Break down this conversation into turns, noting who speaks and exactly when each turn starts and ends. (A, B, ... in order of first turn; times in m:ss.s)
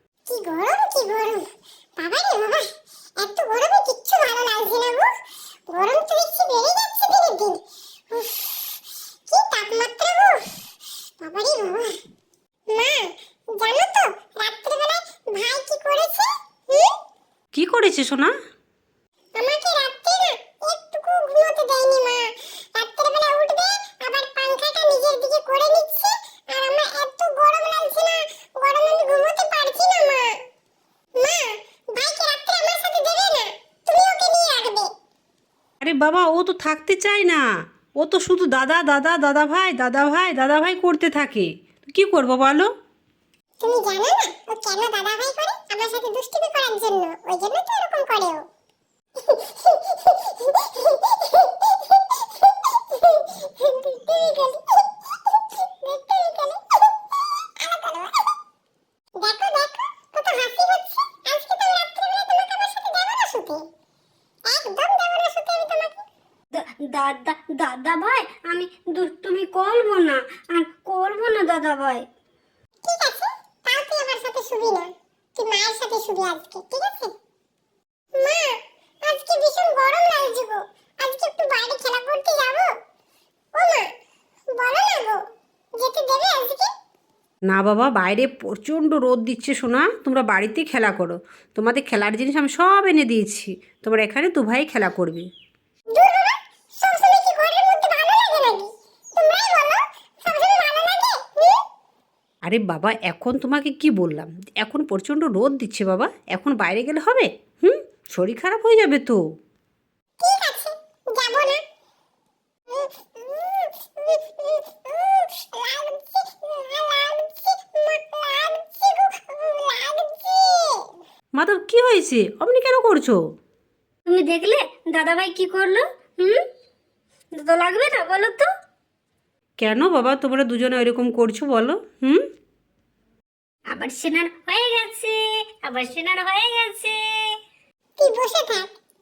0:00.3-0:01.4 A
0:02.0-0:02.6 A
0:03.2-0:05.1 A
0:05.7-0:08.5 A
0:09.3-0:10.5 A
0:11.2-0:12.0 A
0:12.7-0:16.9 A
0:17.5-0:18.3 B
0:19.3-0:30.4 A
0:31.2-0:34.9 A
0:35.8-0:37.4 B
0:38.0-0:42.7 B
0:43.6-0:48.4 A
0:52.9-0:54.8 A
0:55.5-0:56.6 A
0:57.6-0:58.3 A
0:59.2-1:03.6 A
1:04.5-1:06.0 A
1:06.5-1:12.0 C
1:12.8-1:17.1 A
1:18.2-1:22.7 A
1:23.5-1:23.8 A
1:24.5-1:25.2 A
1:25.8-1:26.7 A
1:27.5-1:35.3 B
1:35.9-1:41.6 A
1:42.4-1:49.2 B
1:50.2-1:51.6 A
1:52.7-2:00.9 A
2:01.4-2:03.2 B
2:04.1-2:06.4 C
2:07.3-2:08.5 C
2:09.6-2:12.2 B
2:13.7-2:17.3 C
2:18.0-2:18.7 A